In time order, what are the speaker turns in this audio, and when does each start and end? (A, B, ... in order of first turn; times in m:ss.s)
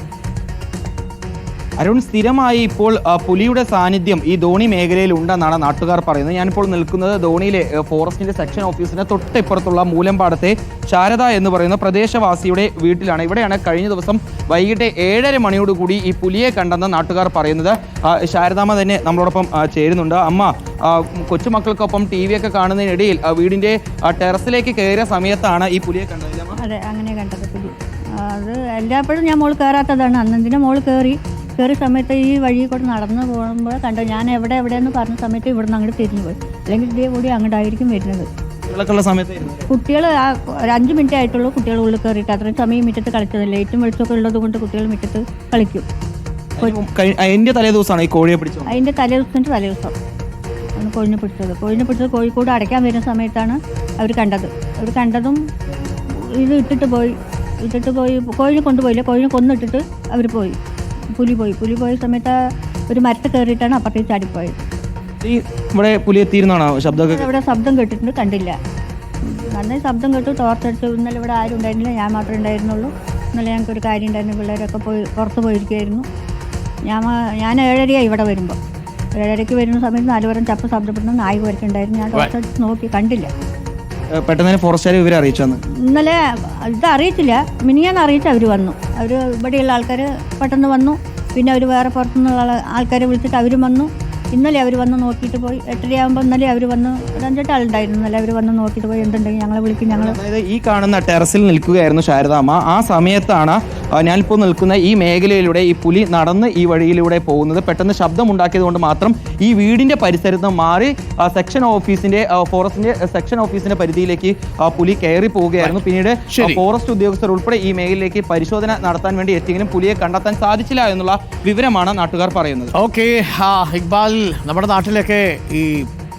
0:01.8-0:26.6 A
0:26.6-0:38.3 B
0:38.7-0:39.6 A
0:39.7-0:45.8 B
0:46.6-0:48.8 A
0:48.7-0:49.9 B
0:50.8-0:55.4 B
0:56.1-1:00.6 B
1:01.2-1:02.3 B
1:02.9-1:04.6 B
1:05.2-1:07.3 A
1:06.9-1:08.6 B
1:09.2-1:16.0 B
1:16.8-1:18.6 B
1:19.2-1:23.3 B
1:24.1-1:25.6 A
1:25.8-1:40.2 B
1:39.9-2:02.7 A
1:56.3-1:56.6 C
2:02.7-2:05.9 C